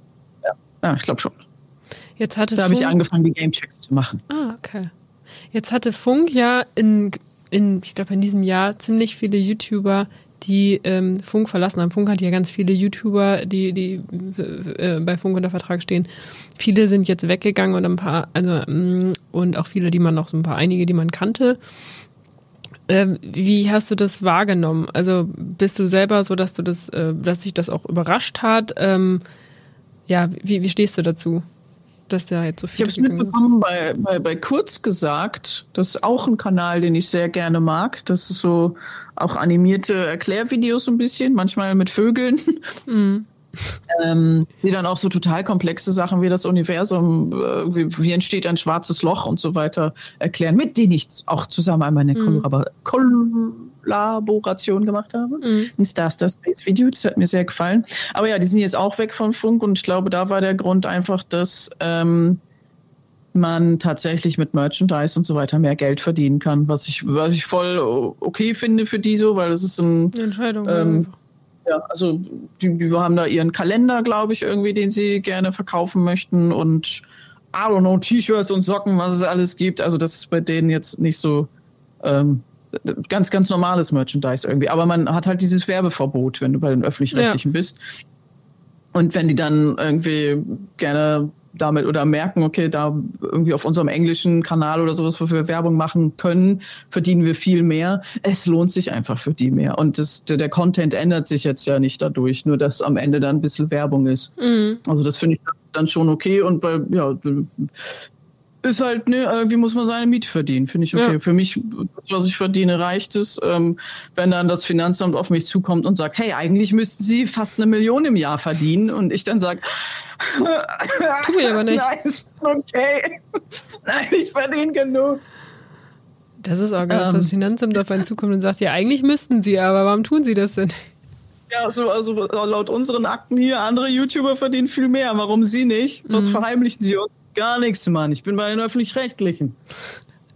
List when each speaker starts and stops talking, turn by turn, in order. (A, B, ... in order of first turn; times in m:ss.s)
0:00.4-0:01.4 A
0:02.2-0:03.0 B
0:02.6-0:04.2 A
0:04.3-0:04.9 B
0:05.5-0:21.6 B
0:22.9-0:29.2 B
0:30.1-0:31.4 B
0:32.1-0:33.4 B
0:32.8-0:42.8 A
0:42.9-0:43.8 B
0:43.9-1:02.4 A
0:52.2-0:52.5 B
0:55.4-0:55.7 B
1:03.3-1:11.1 A
1:10.1-1:11.1 B
1:11.7-1:21.5 A
1:22.0-1:27.8 A
1:27.1-1:27.4 B
1:29.0-1:44.3 A
1:44.4-1:44.8 B
1:44.8-1:48.0 A
1:48.6-2:03.2 A
2:01.2-2:01.9 B
2:03.8-2:05.2 A
2:06.4-2:10.9 B
2:06.9-2:07.3 A
2:11.5-2:19.6 A
2:16.1-2:16.4 B